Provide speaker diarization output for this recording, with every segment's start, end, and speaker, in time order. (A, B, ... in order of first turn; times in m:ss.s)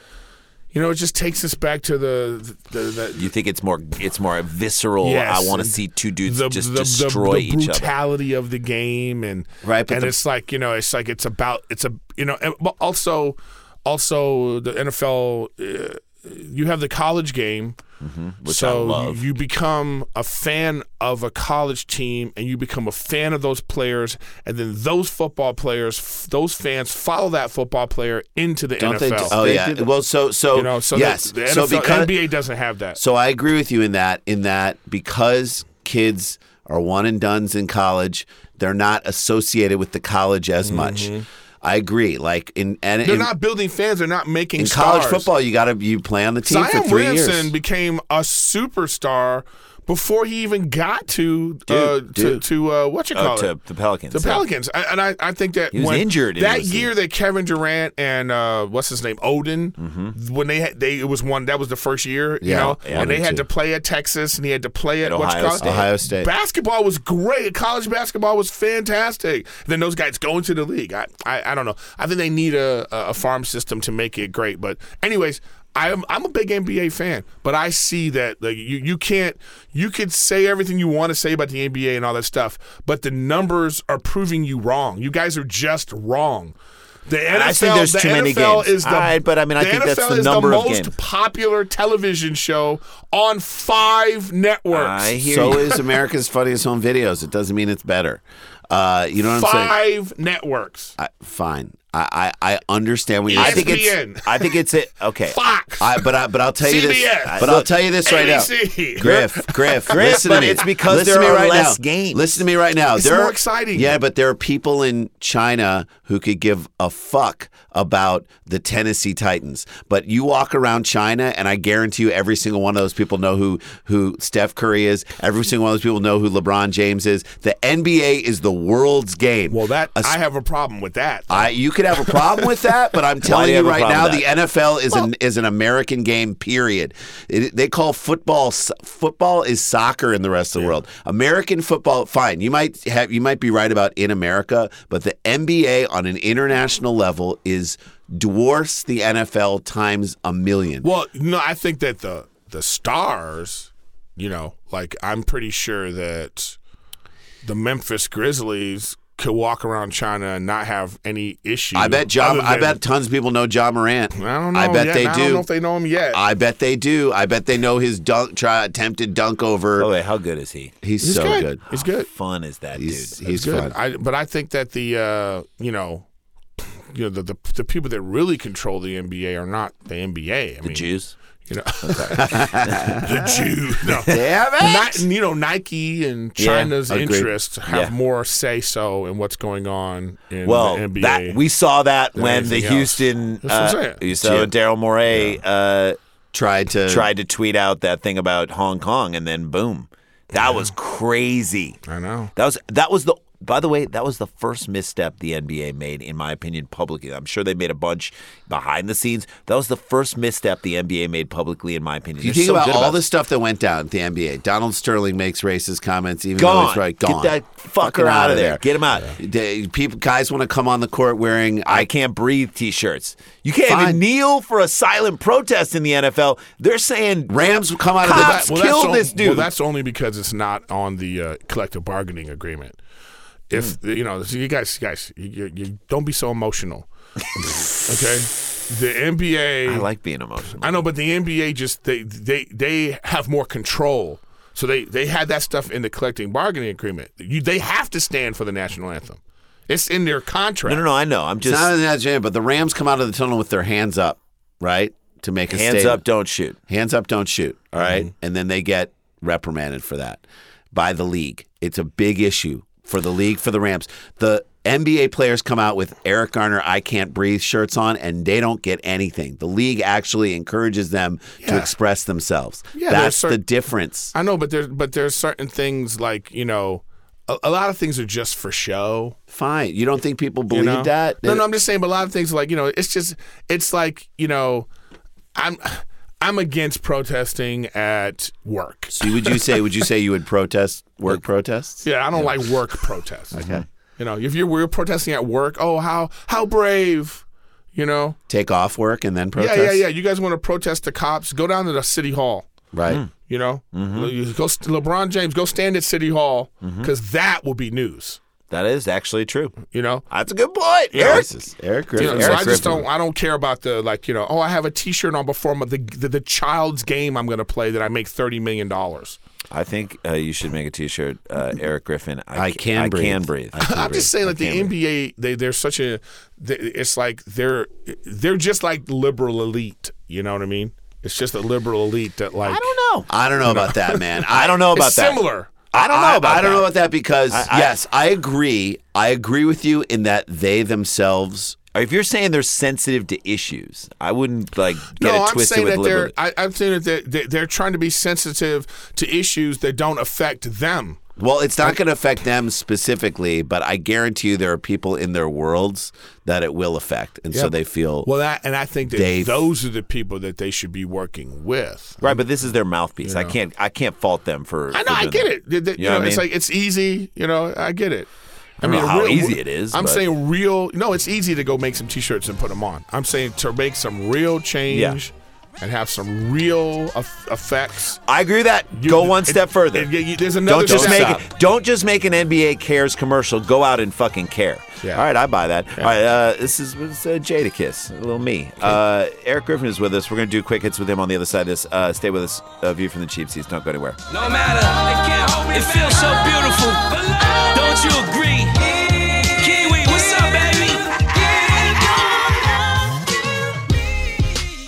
0:00.7-0:03.3 A
0:03.2-0:07.9 B
0:05.0-0:17.8 A
0:09.6-0:10.1 C
0:18.0-0:19.2 B
0:18.5-0:29.4 A
0:28.8-0:32.2 C
0:29.2-0:29.9 B
0:30.5-0:33.0 A
0:33.0-0:43.3 C
0:40.6-0:41.2 A
0:43.0-0:45.3 A
0:44.6-0:47.5 C
0:46.4-0:53.5 A
0:52.2-0:52.4 C
0:53.2-0:54.5 B
0:54.1-1:26.6 A
0:55.7-0:56.9 B
0:59.8-1:00.2 B
1:02.4-1:03.5 C
1:02.8-1:03.1 B
1:05.0-1:05.9 B
1:05.6-1:06.3 C
1:27.1-1:35.2 A
1:27.3-1:30.9 B
1:34.7-1:35.7 B
1:35.2-1:39.7 C
1:39.2-1:41.0 A
1:41.0-1:43.9 C
1:43.3-1:44.6 A
1:43.4-1:45.4 B
1:45.3-1:46.0 A
1:45.8-2:10.2 C
1:46.6-1:47.5 A
1:47.2-1:47.7 B
1:48.0-1:50.6 A
1:49.0-1:49.3 B
1:49.9-1:52.3 B
1:53.0-1:54.0 A
2:09.5-2:11.5 A
2:11.3-2:30.9 C
2:13.2-2:14.3 B
2:30.8-2:36.6 A
2:37.4-2:42.8 A
2:41.7-2:45.5 C
2:44.2-2:46.2 A
2:46.1-2:49.9 C
2:49.8-2:50.8 B
2:50.8-2:51.6 C
2:51.0-2:52.1 A
2:51.7-2:53.2 B
2:52.8-2:53.8 C
2:53.2-2:56.1 A
2:56.6-3:00.9 A
3:00.6-3:01.2 B
3:01.5-3:11.4 A
3:01.8-3:03.0 B
3:02.1-3:03.1 C
3:04.1-3:05.0 C
3:06.4-3:07.0 B
3:06.9-3:07.3 C
3:07.7-3:07.9 B
3:10.4-3:16.0 B
3:12.2-3:14.0 A
3:14.2-3:14.5 C
3:16.3-3:17.1 C
3:16.9-3:21.8 B
3:21.9-3:22.3 A
3:22.4-3:33.0 B
3:32.2-3:38.6 C
3:36.4-3:39.1 B
3:39.2-3:41.9 C
3:41.7-3:47.4 B
3:43.7-3:44.0 C
3:47.3-3:48.4 C
3:48.0-3:49.5 B
3:48.0-3:52.8 A
3:53.5-3:56.9 A
3:57.9-3:59.9 A
3:59.6-4:00.9 B
4:00.6-4:10.8 A
4:10.6-4:11.7 B
4:11.4-4:16.0 C
4:15.5-4:16.6 B
4:16.7-4:34.1 C
4:31.4-4:31.7 A
4:32.7-4:33.4 A
4:34.1-4:39.2 A
4:39.3-4:41.4 C
4:40.5-4:44.7 A
4:45.4-4:49.4 A
4:49.0-4:51.8 C
4:51.8-4:53.4 A
4:53.3-4:53.6 C
4:54.0-4:58.2 A
4:58.3-4:59.8 C
4:59.4-5:02.5 A
5:02.7-5:03.0 C
5:03.2-5:08.2 A
5:03.7-5:04.1 B
5:06.6-5:06.9 B
5:08.5-5:11.3 B
5:09.6-5:10.0 A
5:10.9-5:11.3 A
5:11.0-5:12.8 C
5:12.0-5:19.2 A
5:12.0-5:12.8 B
5:19.5-5:24.7 B
5:22.4-5:24.1 C
5:23.6-5:32.7 A
5:32.4-5:33.1 B
5:33.1-5:34.6 C
5:33.5-5:35.7 A
5:34.3-5:36.7 B
5:35.7-5:41.6 C
5:37.3-5:37.8 B
5:41.7-5:46.1 B
5:45.0-5:51.0 A
5:51.2-5:58.1 C
5:57.3-6:02.2 A
5:59.0-5:59.5 C
6:02.0-6:06.3 B
6:03.0-6:03.4 A
6:04.7-6:08.1 A
6:08.6-6:10.0 B
6:08.6-6:18.0 A
6:14.7-6:15.0 B
6:18.1-6:19.9 B
6:18.7-6:21.3 A
6:20.4-6:34.0 B
6:20.9-6:21.2 C
6:34.1-6:43.1 D